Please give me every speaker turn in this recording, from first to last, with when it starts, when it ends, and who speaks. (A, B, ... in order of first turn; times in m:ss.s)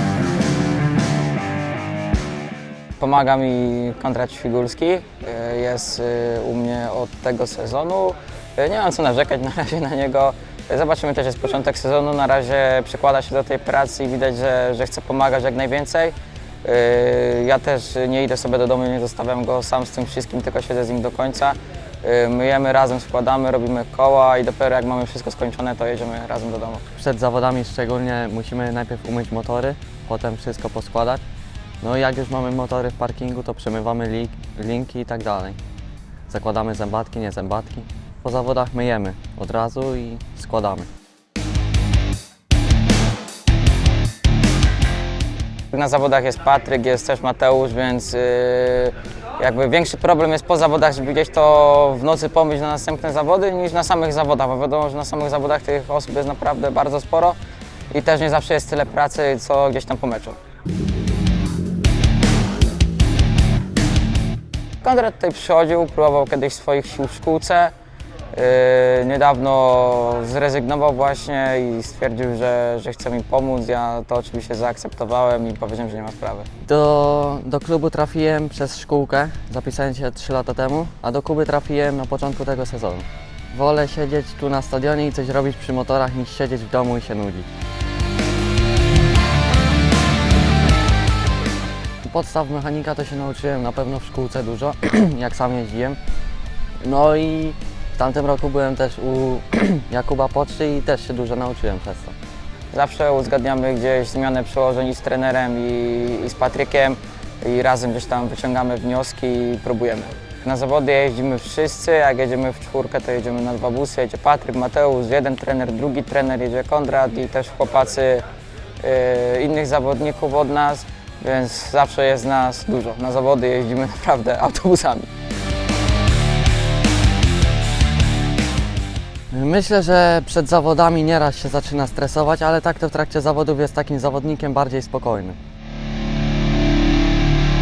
0:03.0-0:26.8 A
0:26.9-0:31.2 B
0:31.8-0:35.6 B
0:36.3-0:40.9 B
0:45.7-0:57.4 A
0:57.9-1:00.4 A
1:04.8-1:07.7 A
1:08.3-1:16.5 A
1:16.6-1:27.5 B
1:32.0-1:36.0 B
1:36.8-1:42.1 B
1:42.7-1:58.2 A
1:58.8-2:05.1 A
2:09.3-2:15.4 B